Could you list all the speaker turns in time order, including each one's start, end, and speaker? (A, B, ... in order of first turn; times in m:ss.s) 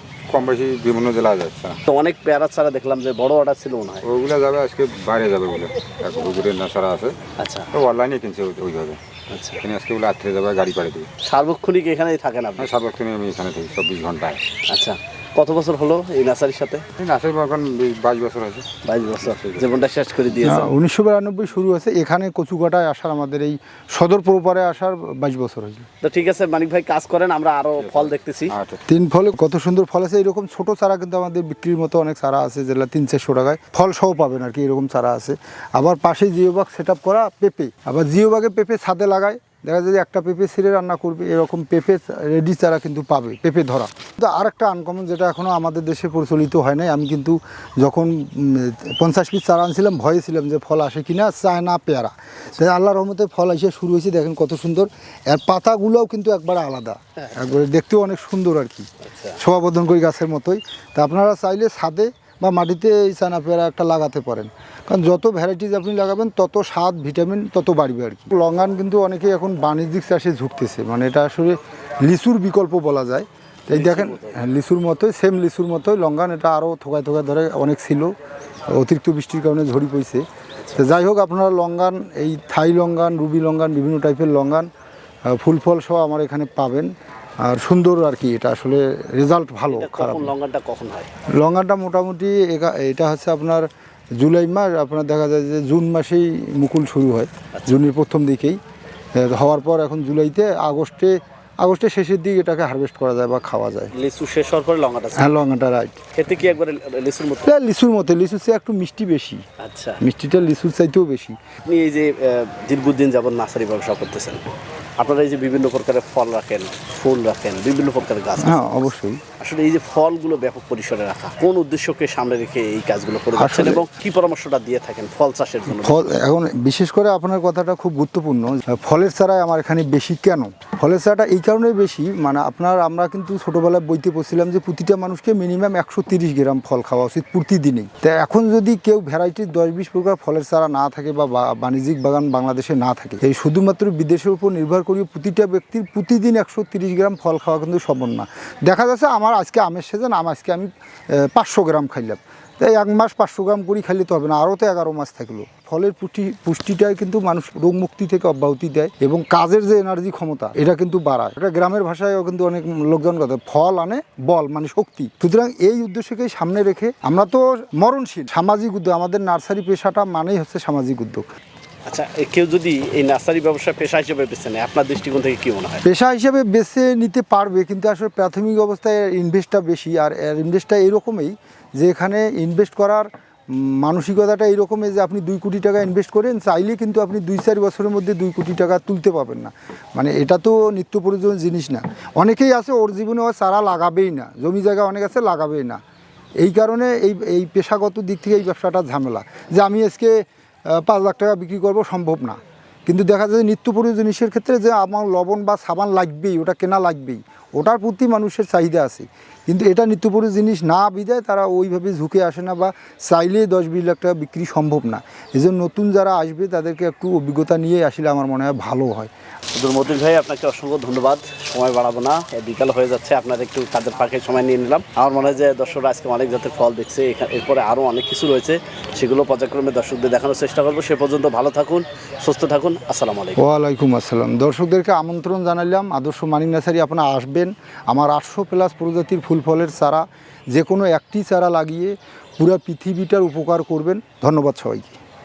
0:00.3-0:01.8 A
0:01.9-0:04.0 B
0:04.0-0:07.1 A
0:07.4-0:07.7 B
0:07.7-0:09.0 A
0:09.3-0:09.6 B
0:09.6-0:11.1 A
0:11.2-0:12.8 B
0:12.6-0:14.4 A
0:14.7-0:16.8 B
0:17.0-0:18.7 A
0:18.8-0:20.7 B
0:19.2-0:19.8 A
0:20.4-0:25.9 C
0:26.0-0:28.6 B
0:27.8-0:28.8 A
0:28.9-0:58.9 C
0:57.2-0:57.4 B
0:59.0-0:59.4 B
0:59.4-1:18.1 C
1:13.7-1:14.4 B
1:18.7-1:20.2 C
1:20.7-1:24.7 C
1:25.3-1:26.9 C
1:27.4-1:30.3 C
1:29.7-1:31.1 B
1:31.4-1:38.6 C
1:39.2-1:43.9 C
1:43.9-1:45.4 B
1:45.1-1:46.0 C
1:46.1-1:47.5 B
1:47.4-1:49.4 C
1:49.6-1:50.0 B
1:50.0-1:51.4 C
1:51.6-1:54.4 B
1:55.0-1:58.9 B
1:58.4-1:59.2 C
1:59.4-2:06.1 B
2:03.3-2:03.8 C
2:05.7-2:51.2 C
2:51.9-2:55.8 B
2:55.8-3:15.8 C
3:16.4-3:20.2 C
3:20.7-3:39.1 C
3:39.5-3:53.4 B
3:53.4-4:05.0 C